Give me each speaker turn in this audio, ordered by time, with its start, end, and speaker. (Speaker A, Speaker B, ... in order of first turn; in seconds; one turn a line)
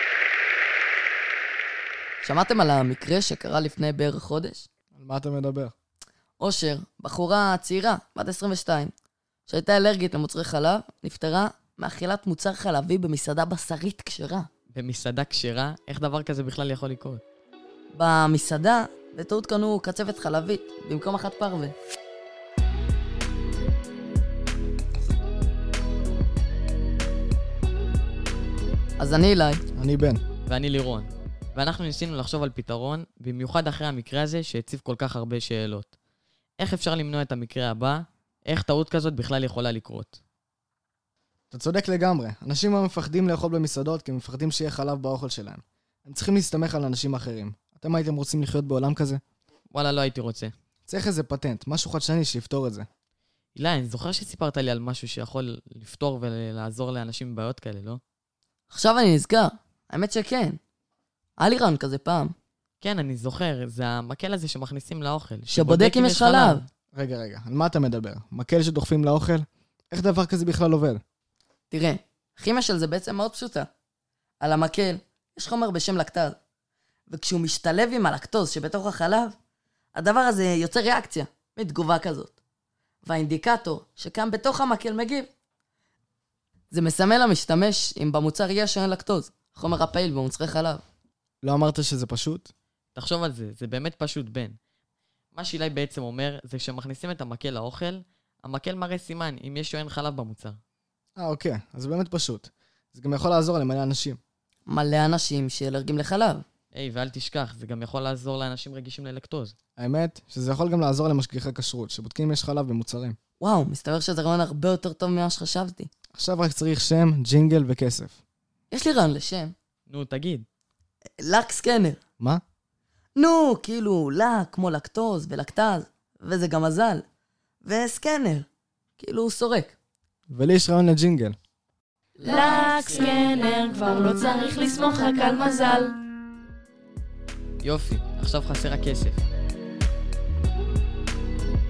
Speaker A: 2.2-4.7
Speaker B: 5.0-5.7
Speaker A: 6.4-8.9
Speaker A: 9.5-14.5
Speaker C: 14.7-17.2
Speaker A: 17.9-21.8
Speaker A: 29.0-29.6
Speaker B: 29.7-30.2
Speaker C: 30.5-35.9
Speaker C: 36.6-40.2
Speaker B: 41.5-49.2
Speaker C: 49.7-50.5
Speaker B: 50.9-52.9
Speaker C: 53.6-58.0
Speaker A: 58.7-60.6
Speaker A: 61.4-62.3
Speaker C: 62.8-66.7
Speaker A: 65.5-66.6
Speaker B: 66.9-71.0
Speaker A: 71.7-73.7
Speaker A: 74.4-76.4
Speaker A: 77.1-79.4
Speaker A: 80.0-82.4
Speaker A: 83.0-85.3
Speaker A: 86.7-90.8
Speaker B: 91.4-92.5
Speaker C: 93.0-94.6
Speaker C: 95.3-100.6
Speaker B: 101.2-104.2
Speaker A: 104.7-106.5
Speaker C: 106.7-109.5
Speaker B: 109.8-113.2
Speaker A: 113.4-115.9
Speaker B: 116.2-118.2
Speaker A: 118.7-119.5
Speaker C: 119.9-120.5
Speaker A: 121.2-122.0
Speaker A: 123.2-127.1
Speaker A: 127.6-128.5
Speaker A: 129.0-129.8
Speaker B: 130.3-131.4
Speaker D: 132.2-135.9
Speaker A: 132.2-133.0
Speaker C: 137.6-139.2